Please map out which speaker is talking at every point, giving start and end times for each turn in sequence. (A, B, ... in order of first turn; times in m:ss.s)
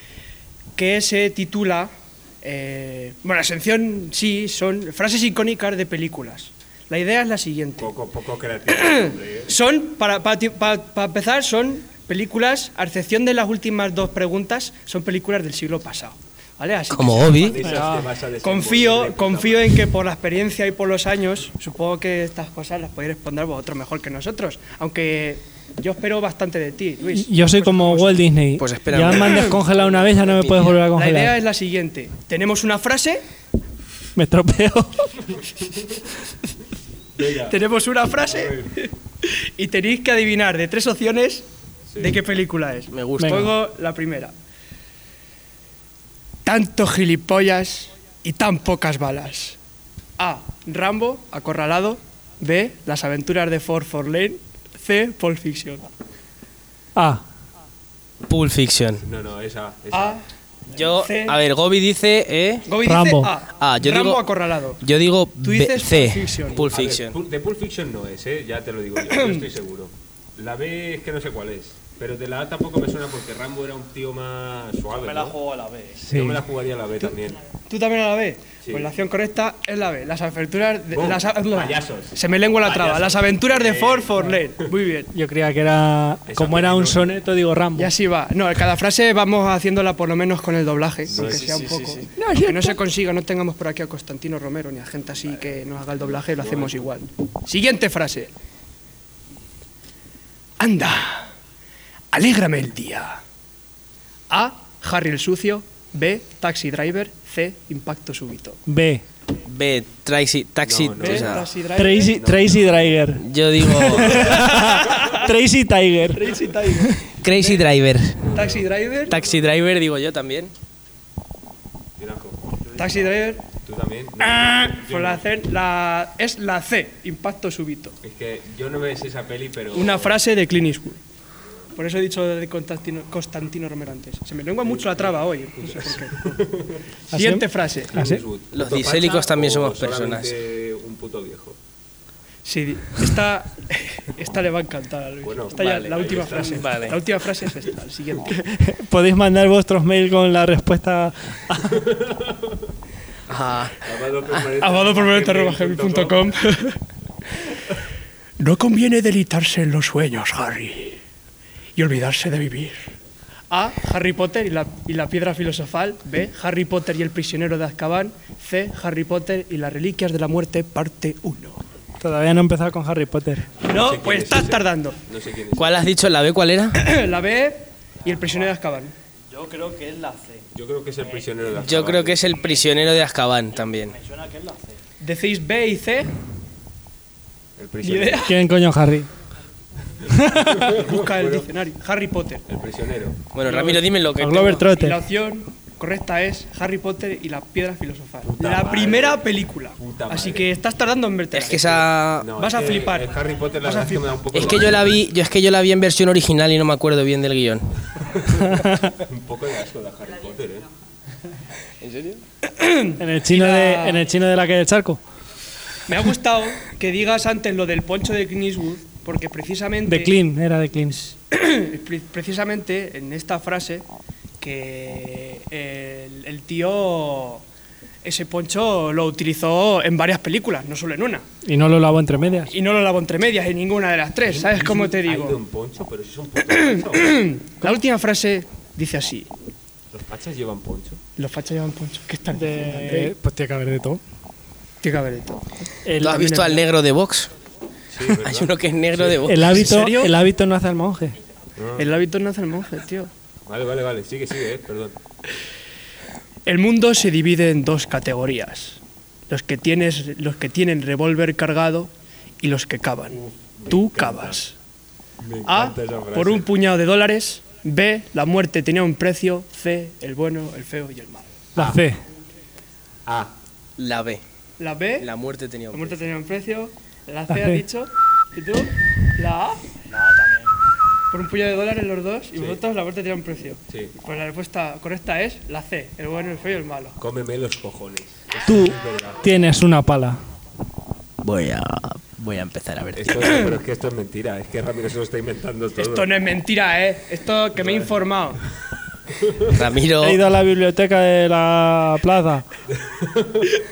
0:00.8-0:07.9 A
0:07.8-0:09.5 B
0:08.7-0:17.7 A
0:16.9-0:17.6 C
0:17.2-0:19.9 B
0:17.6-0:18.1 D
0:18.4-0:28.3 A
0:27.2-0:31.4 D
0:28.6-0:30.8 C
0:29.2-0:29.6 A
0:30.9-0:33.2 A
0:34.2-0:35.2 D
0:37.2-0:37.6 B
0:37.5-0:41.5 A
0:38.3-0:38.8 B
0:41.9-0:42.2 B
0:42.0-0:44.3 A
0:42.9-0:43.5 C
0:43.2-0:43.5 D
0:46.4-0:49.6 A
0:50.2-0:55.8 A
0:57.0-0:57.2 D
0:58.3-0:59.0 C
0:59.0-1:00.2 B
0:59.9-1:00.2 A
1:00.7-1:02.7 C
1:00.9-1:01.4 A
1:02.7-1:04.8 A
1:02.8-1:03.3 D
1:03.6-1:04.2 C
1:04.8-1:07.2 C
1:05.4-1:06.6 A
1:06.7-1:15.4 B
1:09.1-1:09.4 A
1:15.0-1:16.0 E
1:16.1-1:16.4 D
1:16.1-1:17.4 B
1:17.7-1:25.1 A
1:18.6-1:18.9 B
1:20.9-1:24.3 B
1:25.1-1:27.9 D
1:26.3-1:27.2 B
1:27.8-1:38.3 A
1:31.1-1:31.5 B
1:31.1-1:32.1 C
1:32.2-1:32.8 D
1:36.3-1:36.9 B
1:40.6-1:41.3 A
1:42.1-1:43.2 A
1:44.3-1:48.6 A
1:48.7-1:49.0 D
1:49.4-1:51.5 C
1:50.6-1:53.0 B
1:51.0-1:52.2 A
1:51.8-1:56.9 D
1:53.2-1:54.3 C
1:53.8-1:54.3 B
1:54.2-1:55.3 A
1:56.1-1:57.6 A
1:57.1-1:58.2 C
1:58.2-1:59.5 B
1:58.3-1:59.2 A
1:59.1-2:00.5 C
2:02.0-2:02.4 B
2:02.7-2:03.3 E
2:02.8-2:03.4 A
2:03.6-2:05.2 B
2:04.2-2:08.0 A
2:08.0-2:10.1 B
2:09.7-2:11.0 A
2:11.8-2:16.4 A
2:14.6-2:16.8 B
2:17.1-2:18.0 A
2:17.1-2:18.2 D
2:17.9-2:21.6 B
2:18.5-2:20.3 C
2:22.4-2:28.4 A
2:25.2-2:26.8 B
2:25.5-2:27.0 C
2:28.4-2:31.8 D
2:31.6-2:32.7 B
2:33.3-2:33.8 C
2:33.8-2:36.3 B
2:34.6-2:36.8 A
2:38.4-2:41.0 A
2:41.8-2:42.9 A
2:43.5-2:51.6 A
2:52.0-2:53.5 D
2:53.6-2:55.0 A
2:53.7-2:55.8 B
2:55.6-2:56.8 C
2:56.8-2:58.9 A
2:58.0-2:58.5 E
2:59.3-3:00.5 E
3:00.5-3:02.2 B
3:01.0-3:01.3 E
3:01.5-3:04.0 C
3:02.2-3:02.7 E
3:03.7-3:04.8 E
3:05.0-3:06.2 A
3:07.6-3:08.4 B
3:07.8-3:08.4 A
3:08.3-3:09.1 D
3:10.0-3:10.7 D
3:10.4-3:11.5 B
3:10.7-3:12.4 A
3:12.5-3:13.2 B
3:13.3-3:14.7 C
3:13.5-3:13.8 A
3:14.2-3:15.0 D
3:14.7-3:21.8 A
3:18.2-3:19.3 B
3:19.8-3:20.5 B
3:21.3-3:22.3 C
3:21.5-3:25.0 B
3:22.3-3:23.1 A
3:23.6-3:24.1 A
3:24.3-3:27.7 C
3:28.2-3:30.7 B
3:28.3-3:29.0 D
3:31.8-3:32.2 C
3:32.4-3:34.0 A
3:33.0-3:35.0 D
3:35.9-3:40.2 A
3:39.9-3:41.0 D
3:41.0-3:43.9 A
3:44.4-3:47.4 A
3:48.0-3:51.2 A
3:51.4-3:52.6 D
3:52.5-3:55.4 A
3:54.2-3:57.3 B
3:56.5-3:59.3 A
3:59.9-4:01.0 B
4:01.2-4:03.2 A
4:02.3-4:04.0 D
4:04.8-4:05.7 A
4:05.8-4:06.6 D
4:06.0-4:07.3 C
4:07.9-4:09.3 B
4:08.2-4:09.7 C
4:09.3-4:11.2 D
4:09.6-4:10.2 A
4:11.6-4:11.9 B
4:11.8-4:13.1 A
4:13.5-4:15.0 B
4:16.5-4:24.6 A
4:23.1-4:24.4 B
4:25.2-4:26.5 B
4:25.5-4:31.5 A
4:31.6-4:31.8 B
4:31.6-4:32.0 D
4:33.1-4:33.3 B
4:33.8-4:34.2 C
4:34.6-4:35.1 A
4:35.0-4:36.0 C
4:35.7-4:39.7 A
4:37.3-4:37.6 D
4:39.9-4:40.5 E
4:41.1-4:47.0 A
4:47.0-4:49.2 B
4:48.5-4:50.2 D
4:51.2-4:53.5 C
4:53.0-4:56.1 B
4:55.8-4:58.4 A
4:57.6-4:58.0 B
4:59.1-4:59.6 B
4:59.5-5:00.2 C
5:00.0-5:02.5 D
5:02.7-5:03.6 B